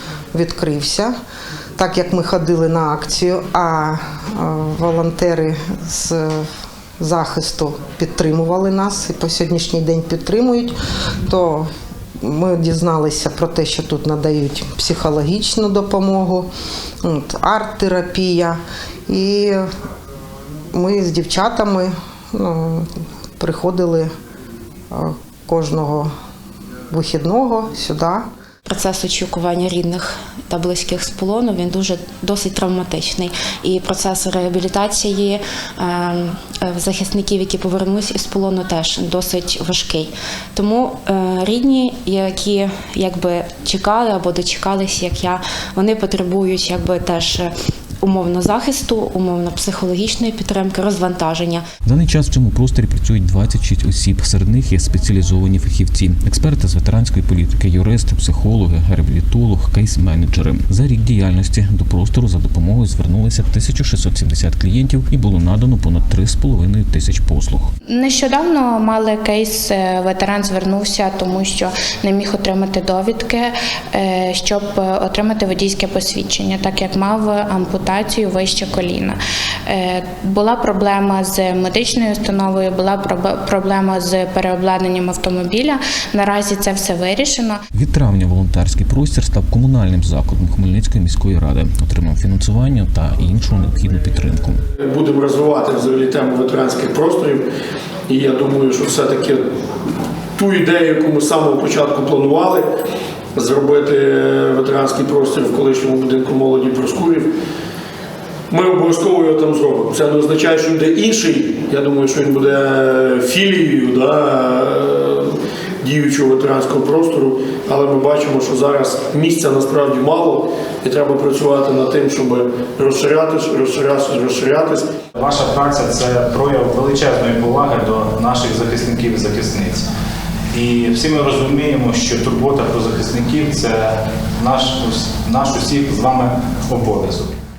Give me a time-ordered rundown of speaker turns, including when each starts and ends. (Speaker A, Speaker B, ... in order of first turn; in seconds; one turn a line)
Speaker A: 0.3-1.1
Speaker A: 1.8-6.5
Speaker A: 7.0-10.7
Speaker A: 11.3-11.7
Speaker A: 12.2-16.5
Speaker A: 17.0-19.7
Speaker A: 20.7-24.1
Speaker A: 24.9-26.1
Speaker A: 26.9-28.2
Speaker B: 28.7-47.5
Speaker B: 48.0-51.6
Speaker C: 51.8-67.7
Speaker D: 67.9-87.6
Speaker C: 87.7-94.6
Speaker E: 94.8-97.4
Speaker E: 98.1-99.4
Speaker E: 100.4-102.7
Speaker E: 103.3-107.3
Speaker E: 108.5-124.9
Speaker F: 125.2-129.9
Speaker F: 130.5-137.3